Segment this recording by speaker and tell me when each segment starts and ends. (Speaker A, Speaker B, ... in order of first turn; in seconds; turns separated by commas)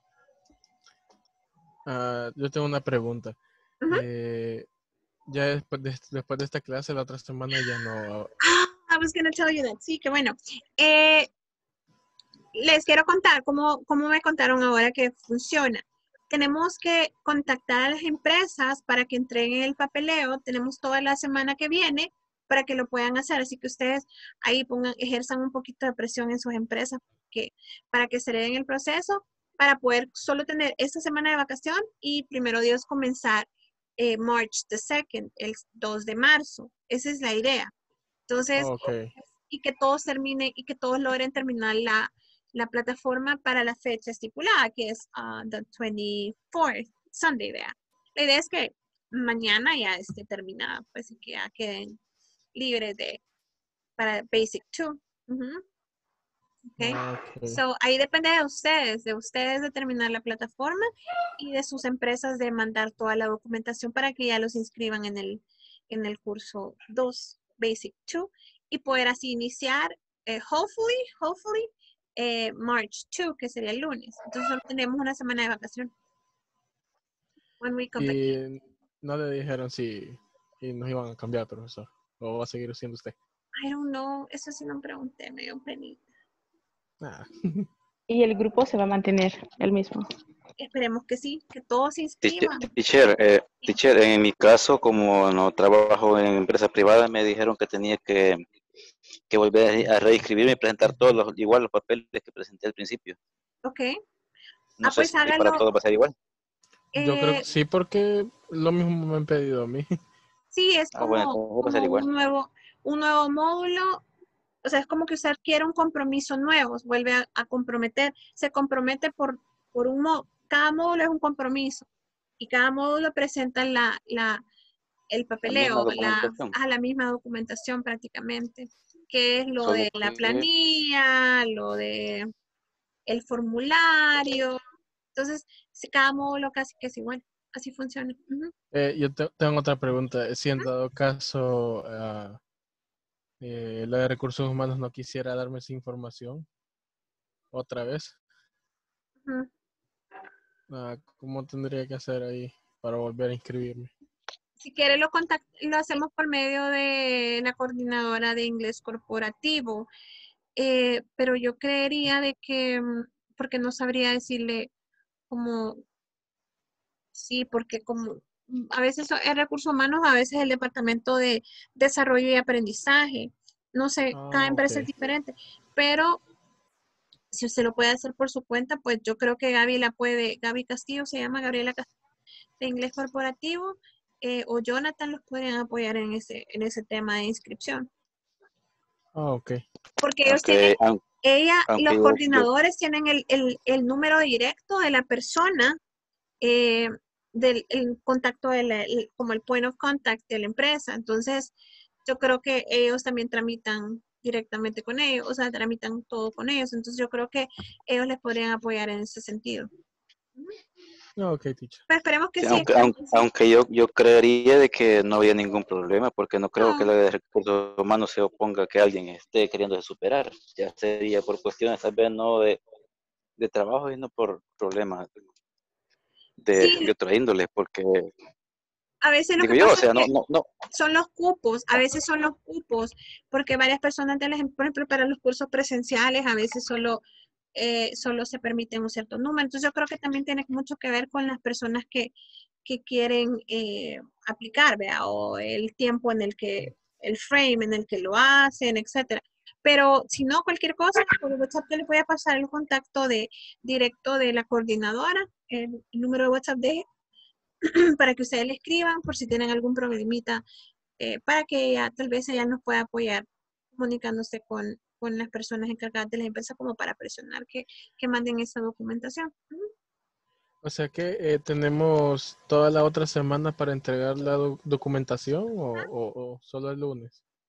Speaker A: 1.9-3.4, Speaker A: 3.9-4.7, Speaker A: 5.3-8.3, Speaker B: 8.4-11.3, Speaker B: 12.6-33.5, Speaker B: 34.0-37.7, Speaker B: 38.3-38.9, Speaker A: 38.6-39.1, Speaker B: 39.4-52.0, Speaker B: 52.5-53.2, Speaker B: 54.0-55.6, Speaker B: 56.7-75.9, Speaker A: 56.8-57.6, Speaker B: 77.6-78.2, Speaker A: 78.0-83.2, Speaker B: 83.6-86.0, Speaker A: 87.0-87.7, Speaker C: 88.1-90.1, Speaker B: 90.6-92.7, Speaker D: 92.2-98.4, Speaker D: 99.3-103.2, Speaker B: 103.7-104.0, Speaker B: 104.8-105.6, Speaker D: 104.8-106.1, Speaker B: 107.0-107.5, Speaker A: 107.0-109.9, Speaker B: 110.5-114.0, Speaker D: 111.0-112.1, Speaker B: 114.7-121.9, Speaker B: 122.4-124.4, Speaker B: 125.1-132.3, Speaker D: 125.5-126.5, Speaker D: 129.6-130.5, Speaker B: 133.1-134.6, Speaker B: 135.2-138.5, Speaker A: 138.7-142.4, Speaker A: 143.4-146.5, Speaker A: 147.5-148.2, Speaker A: 150.7-153.9, Speaker B: 154.6-159.9, Speaker B: 160.6-164.7, Speaker B: 165.3-165.8, Speaker B: 167.2-176.2, Speaker A: 174.1-174.9, Speaker B: 177.3-181.9, Speaker B: 182.6-187.9, Speaker A: 189.2-189.6, Speaker B: 190.0-195.8, Speaker D: 190.3-191.0, Speaker D: 191.7-192.5, Speaker B: 196.4-201.5, Speaker B: 202.1-209.7, Speaker A: 211.2-211.8, Speaker B: 211.9-213.2, Speaker D: 212.4-222.6, Speaker B: 216.6-216.9, Speaker D: 223.4-225.1, Speaker D: 226.4-228.1, Speaker B: 226.5-226.9, Speaker B: 229.0-230.1, Speaker D: 229.4-230.5, Speaker B: 230.7-237.0, Speaker B: 237.6-242.1, Speaker B: 242.7-256.9, Speaker B: 257.6-260.4, Speaker B: 261.0-269.7, Speaker A: 270.6-277.2